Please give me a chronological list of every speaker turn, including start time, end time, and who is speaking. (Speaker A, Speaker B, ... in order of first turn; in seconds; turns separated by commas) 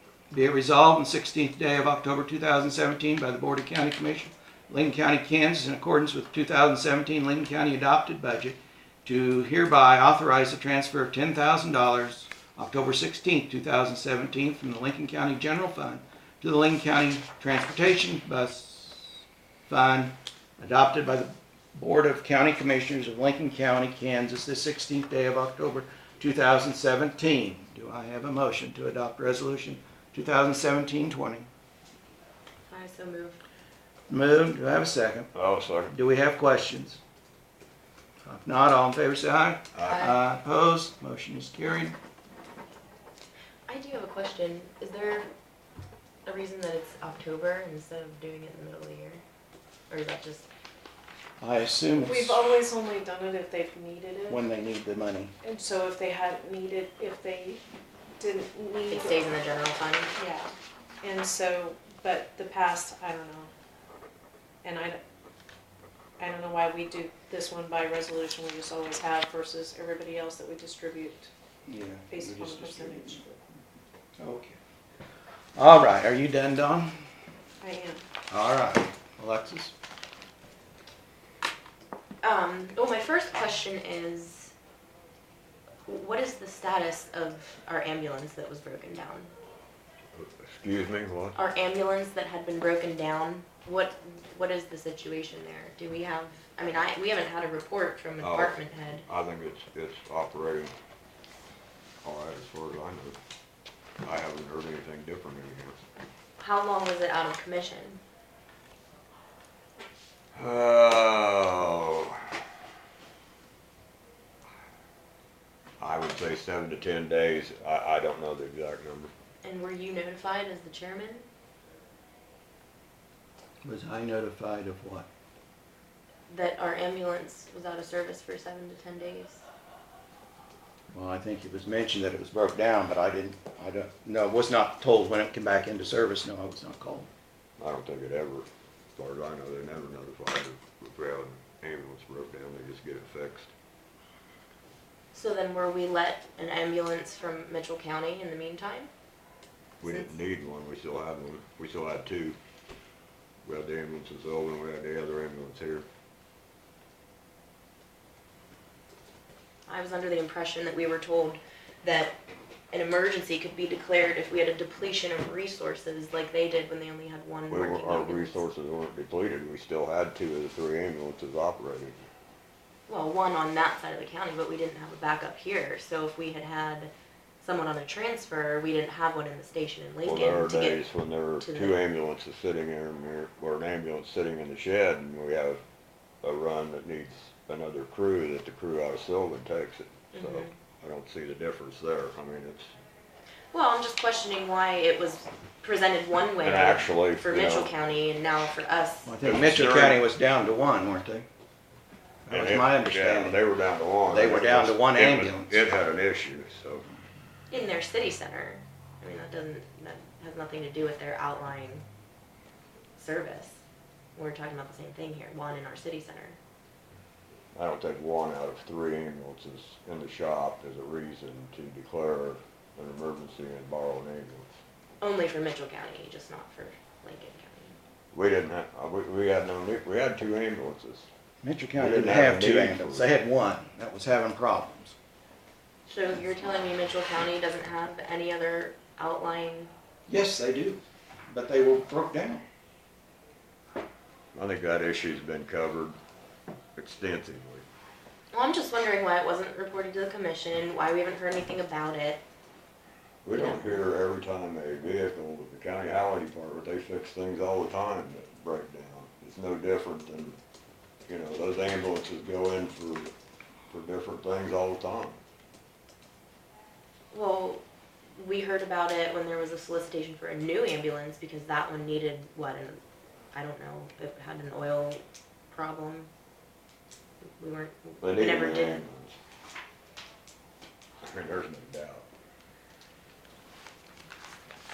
Speaker A: 0.3-31.5, Speaker B: 32.7-33.4, Speaker A: 34.1-35.3, Speaker C: 35.3-36.0, Speaker A: 35.9-37.0, Speaker A: 38.2-42.0, Speaker B: 39.8-40.2, Speaker B: 43.7-45.3, Speaker B: 46.2-49.2, Speaker B: 49.9-50.5, Speaker A: 51.4-52.4, Speaker D: 52.0-54.4, Speaker A: 54.3-55.3, Speaker D: 55.4-57.6, Speaker D: 58.2-59.2, Speaker B: 58.9-60.1, Speaker D: 60.2-63.5, Speaker D: 64.6-65.0, Speaker D: 66.2-71.3, Speaker A: 71.7-73.2, Speaker D: 72.1-73.4, Speaker A: 74.2-74.6, Speaker A: 75.6-77.0, Speaker D: 77.6-78.0, Speaker A: 78.3-79.7, Speaker B: 82.2-84.5, Speaker B: 85.9-89.3, Speaker C: 90.2-91.4, Speaker B: 91.3-99.0, Speaker C: 98.2-100.7, Speaker C: 102.0-103.2, Speaker C: 104.0-105.8, Speaker B: 106.4-108.0, Speaker C: 110.3-112.2, Speaker C: 115.8-119.1, Speaker B: 119.4-121.3, Speaker A: 123.6-125.1, Speaker B: 126.3-129.4, Speaker A: 130.9-137.1, Speaker C: 137.6-143.5, Speaker B: 145.1-148.9, Speaker C: 149.8-152.4, Speaker B: 149.8-150.1, Speaker C: 153.4-155.9, Speaker B: 159.7-162.2, Speaker B: 162.7-168.4, Speaker C: 167.5-172.0, Speaker B: 172.9-180.9, Speaker C: 180.1-185.6, Speaker B: 181.4-181.8, Speaker C: 186.2-192.7, Speaker B: 190.1-190.5, Speaker B: 193.5-199.1, Speaker C: 196.4-197.7, Speaker A: 199.1-201.3, Speaker C: 199.2-200.0, Speaker A: 202.3-203.4, Speaker C: 202.3-206.9, Speaker A: 204.1-205.6, Speaker B: 207.5-211.8, Speaker B: 213.0-213.6, Speaker B: 214.2-216.4, Speaker C: 217.5-224.6, Speaker B: 225.0-227.8, Speaker C: 228.1-231.1, Speaker A: 231.4-235.0, Speaker C: 231.8-233.1, Speaker B: 235.9-239.7, Speaker A: 240.1-242.4, Speaker C: 244.3-246.0, Speaker C: 246.8-247.7, Speaker B: 248.3-252.2, Speaker C: 253.2-260.4, Speaker B: 253.3-253.8, Speaker C: 261.1-263.1, Speaker C: 263.7-265.2, Speaker B: 267.1-267.6, Speaker B: 268.2-272.8, Speaker B: 273.3-276.1, Speaker B: 277.4-278.8, Speaker C: 278.0-279.2, Speaker C: 281.0-282.1